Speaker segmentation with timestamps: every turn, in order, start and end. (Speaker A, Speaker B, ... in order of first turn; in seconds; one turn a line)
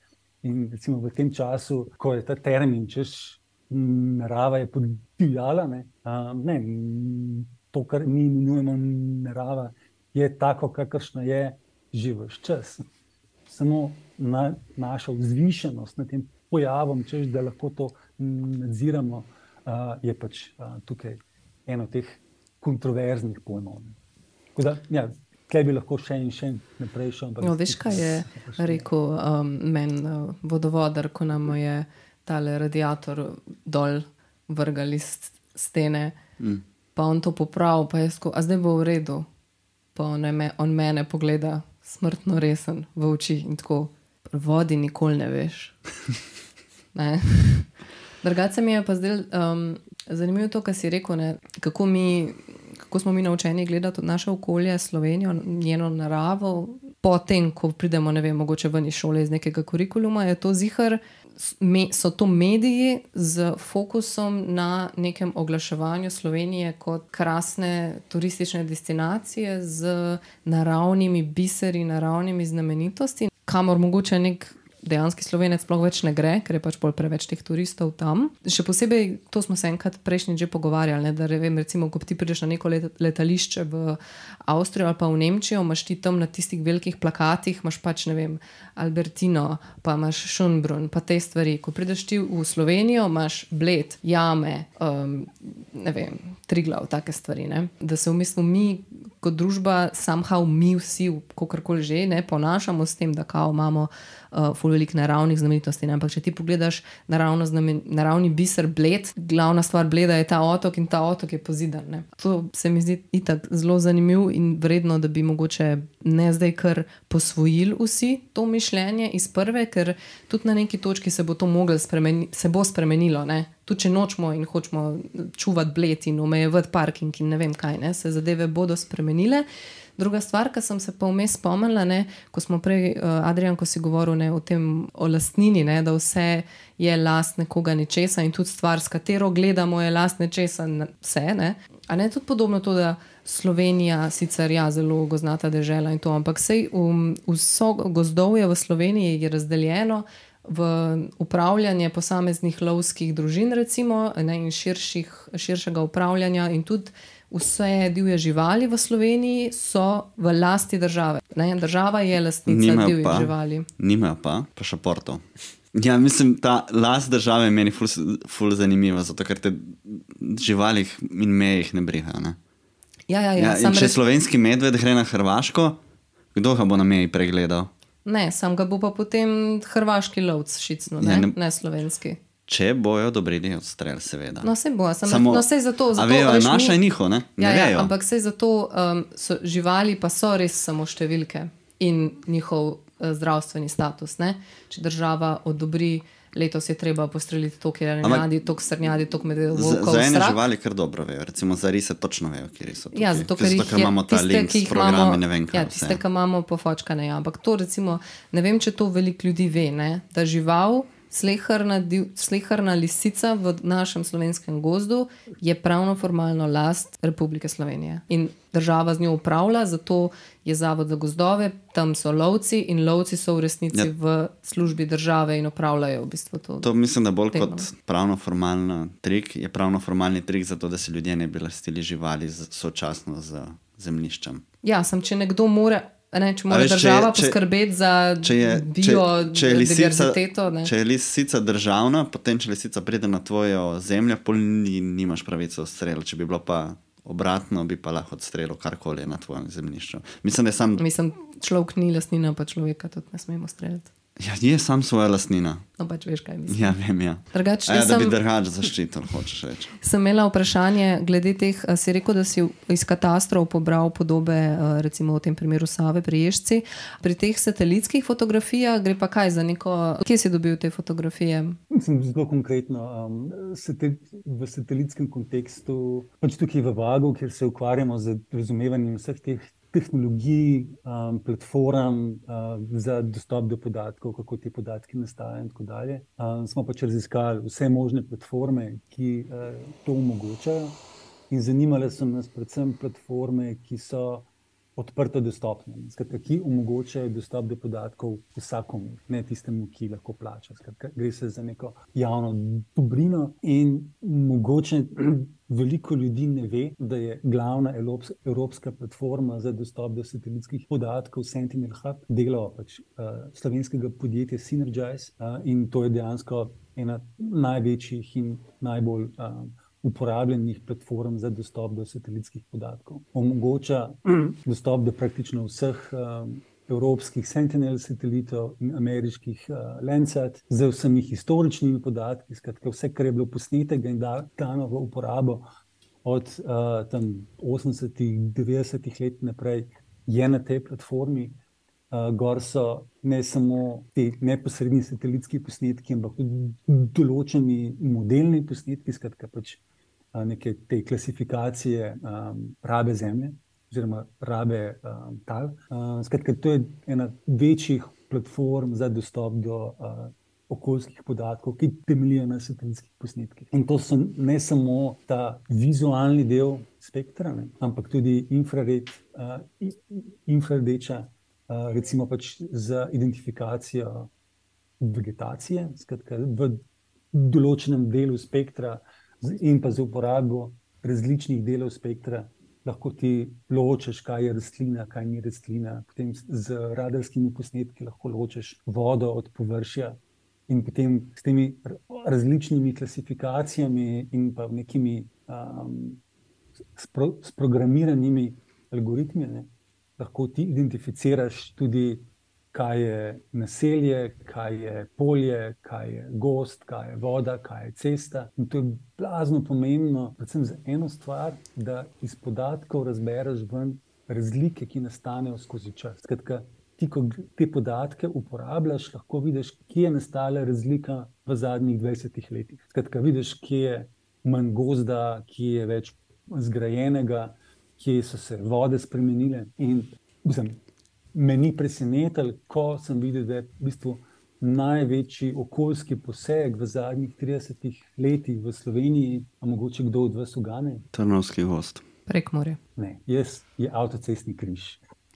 Speaker A: 0.4-12.9
Speaker A: 13.5-24.0
Speaker A: 24.6-28.9
Speaker B: 27.4-36.2
Speaker B: 37.0-39.3
Speaker B: 40.0-45.8
Speaker B: 46.9-129.5
Speaker B: 130.0-163.7
Speaker C: 162.5-172.4
Speaker B: 173.1-174.0
Speaker C: 173.4-175.8
Speaker C: 176.3-177.7
Speaker B: 178.1-182.2
Speaker C: 181.0-181.3
Speaker C: 182.5-184.5
Speaker B: 184.4-186.8
Speaker C: 185.1-187.9
Speaker B: 187.4-200.4
Speaker C: 199.5-206.0
Speaker B: 202.9-226.7
Speaker C: 226.6-234.4
Speaker B: 227.3-227.7
Speaker B: 234.6-240.7
Speaker C: 236.5-237.4
Speaker C: 238.2-250.8
Speaker B: 250.8-253.9
Speaker C: 254.2-255.7
Speaker B: 255.8-256.8
Speaker C: 256.5-259.7
Speaker B: 257.3-258.2
Speaker B: 259.8-271.6
Speaker A: 271.7-290.8
Speaker A: 291.3-335.5
Speaker A: 336.0-341.4
Speaker A: 341.9-349.6
Speaker A: 350.1-374.1
Speaker A: 374.8-396.0
Speaker A: 396.7-430.6
Speaker A: 431.1-440.9
Speaker C: 440.9-441.8
Speaker B: 442.1-442.6
Speaker A: 442.8-444.8